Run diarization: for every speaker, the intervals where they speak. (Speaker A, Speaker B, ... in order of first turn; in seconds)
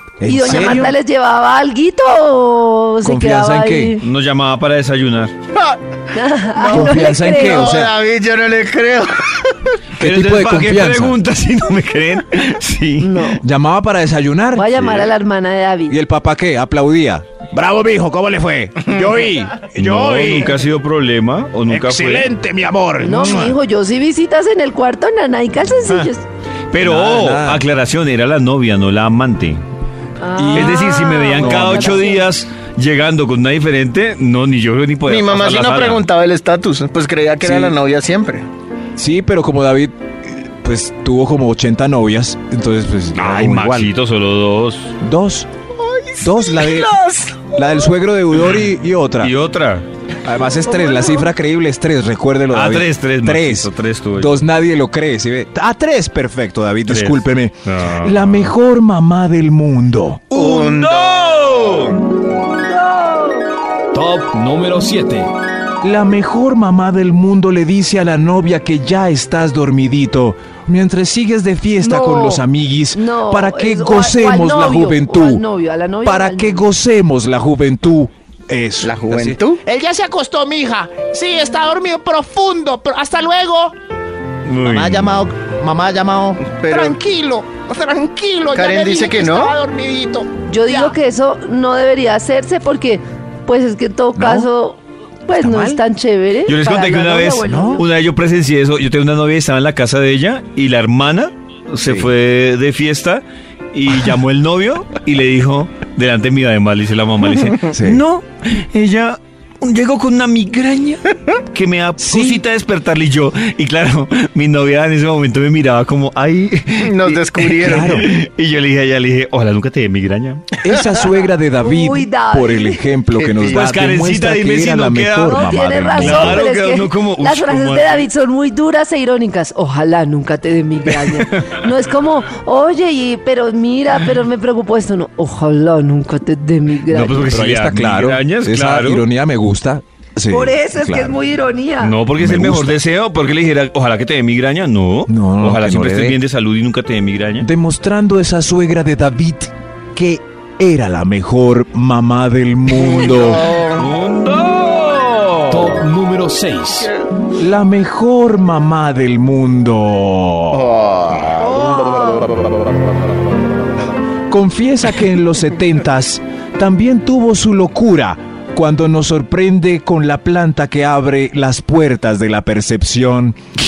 Speaker A: 0.2-0.9, 3.0-4.0, 6.7-7.9, 10.0-11.2, 13.4-15.0, 15.9-20.5, 21.9-23.6, 26.8-27.6, 30.4-32.0, 37.4-37.8, 39.0-43.9, 45.0-45.5, 46.2-46.9, 47.5-49.3, 50.2-60.2, 65.8-75.4, 76.0-79.4, 84.7-86.4, 94.2-94.5, 95.3-95.8, 97.4-97.8, 107.7-108.0, 112.0-112.4, 117.6-118.1, 120.6-126.5, 137.2-141.2, 142.1-142.8, 145.1-146.2, 147.4-153.6, 157.3-160.7, 164.3-173.4
Speaker B: 0.2-4.0, 6.1-7.8, 13.0-13.4, 14.5-16.0, 23.0-26.2, 30.2-32.3, 50.8-51.1, 62.6-63.4, 71.8-76.7, 90.5-97.8, 121.6-122.8, 125.3-137.3, 140.3-141.9, 161.4-162.3
Speaker C: 4.0-5.3, 10.0-13.4, 19.7-22.3, 26.7-29.6, 30.5-36.0, 43.1-45.0, 49.2-49.9, 52.5-54.4, 56.9-58.5, 60.3-62.0, 84.5-85.2, 96.5-120.4, 123.5-128.1, 130.9-131.6, 136.9-139.0, 141.8-147.5, 153.6-155.9
Speaker D: 5.5-5.8, 6.5-9.7, 35.0-38.5, 45.8-47.8, 60.3-62.0, 78.8-79.6, 86.4-87.0, 88.5-89.5, 116.8-118.1, 123.1-123.7, 152.7-153.9, 156.8-157.0, 160.5-161.6
Speaker E: 18.9-20.5, 21.7-22.3, 79.6-83.7, 84.8-91.0
Speaker F: 63.9-65.3, 155.5-156.9